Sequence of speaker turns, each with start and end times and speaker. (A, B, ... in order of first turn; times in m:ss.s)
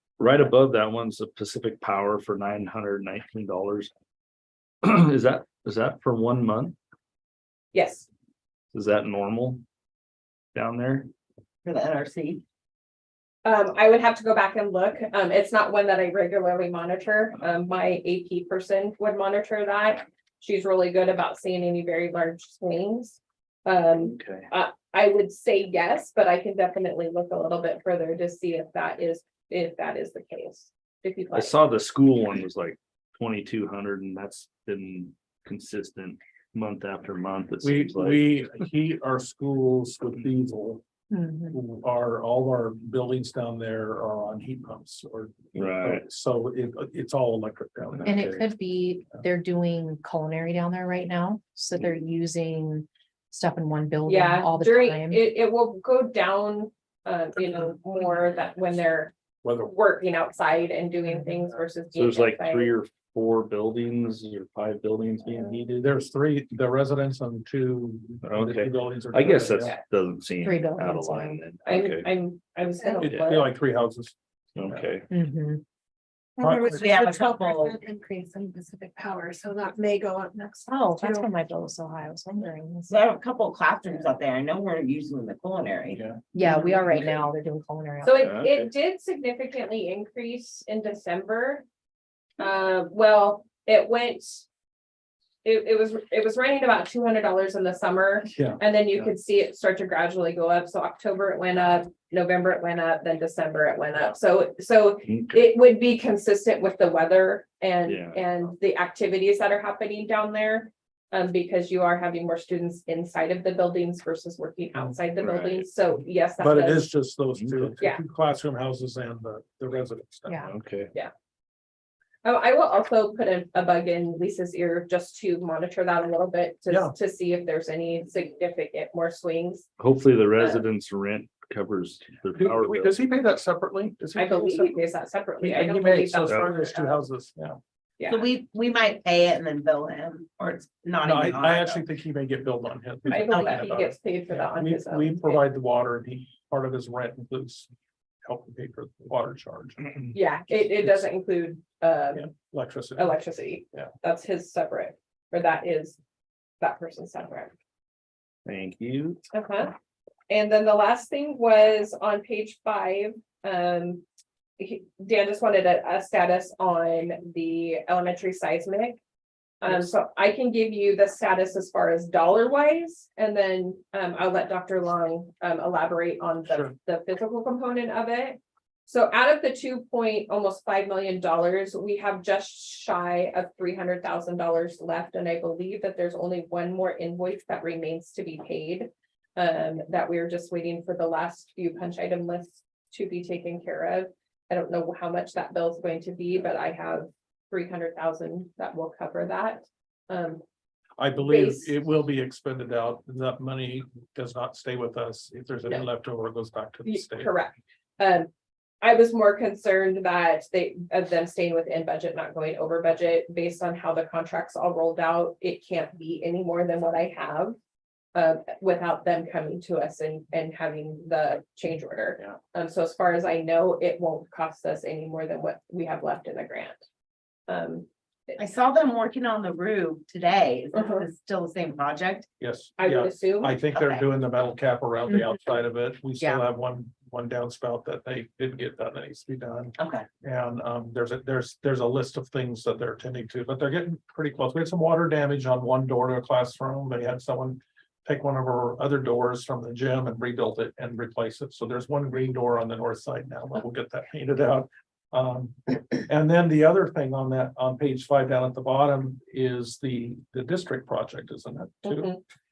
0:00.2-0:03.9 A
0:04.8-0:06.8 A
0:07.7-0:08.1 B
0:08.7-0:09.6 A
0:10.5-0:11.1 A
0:11.6-0:12.4 C
0:13.4-0:31.5 B
0:24.0-0:24.5 A
0:31.3-0:38.3 A
0:37.6-0:40.8 D
0:41.1-0:41.6 E
0:41.5-0:48.5 D
0:45.6-0:46.0 A
0:48.0-0:55.2 E
0:54.1-1:02.7 B
0:59.4-0:59.7 D
1:01.0-1:01.4 E
1:02.0-1:05.9 A
1:05.8-1:09.8 D
1:08.2-1:12.1 A
1:10.4-1:11.4 E
1:11.6-1:13.5 B
1:13.0-1:15.0 D
1:14.6-1:15.1 A
1:15.1-1:15.6 E
1:16.4-1:21.3 F
1:16.4-1:16.8 D
1:16.7-1:17.8 C
1:20.7-1:23.0 E
1:22.9-1:27.2 C
1:25.9-1:26.2 D
1:26.3-1:28.2 E
1:28.0-1:31.6 B
1:28.2-1:28.7 A
1:32.4-1:34.5 B
1:35.4-1:56.9 B
1:38.3-1:38.6 D
1:45.0-1:45.4 A
1:47.8-1:48.2 A
1:55.2-1:55.7 A
1:56.4-2:00.4 D
1:57.3-1:57.8 A
2:00.4-2:00.9 A
2:02.2-2:09.7 B
2:06.7-2:07.0 D
2:09.8-2:13.0 A
2:10.4-2:10.7 B
2:12.4-2:14.8 D
2:14.2-2:17.1 B
2:15.4-2:17.6 D
2:16.2-2:16.6 A
2:18.0-2:18.3 B
2:18.1-2:21.8 C
2:21.0-2:27.7 D
2:23.1-2:25.4 B
2:23.2-2:23.6 C
2:28.2-2:31.1 D
2:30.1-2:32.3 B
2:32.1-2:33.9 D
2:33.0-2:36.0 B
2:36.6-2:37.5 B
2:38.5-2:39.2 A
2:39.3-2:39.7 B
2:40.3-2:44.0 B
2:44.6-2:49.0 B
2:49.6-3:20.4 B
2:56.5-2:56.7 D
3:21.0-3:27.3 D
3:21.2-3:21.7 B
3:26.8-3:28.3 B
3:28.8-3:37.6 B
3:38.2-3:46.8 B
3:47.5-3:48.4 B
3:48.4-3:52.3 C
3:50.7-3:51.1 B
3:52.4-4:22.2 D
3:52.8-3:53.6 B
3:53.7-3:54.0 C
3:59.8-4:00.1 C
4:21.8-4:22.2 B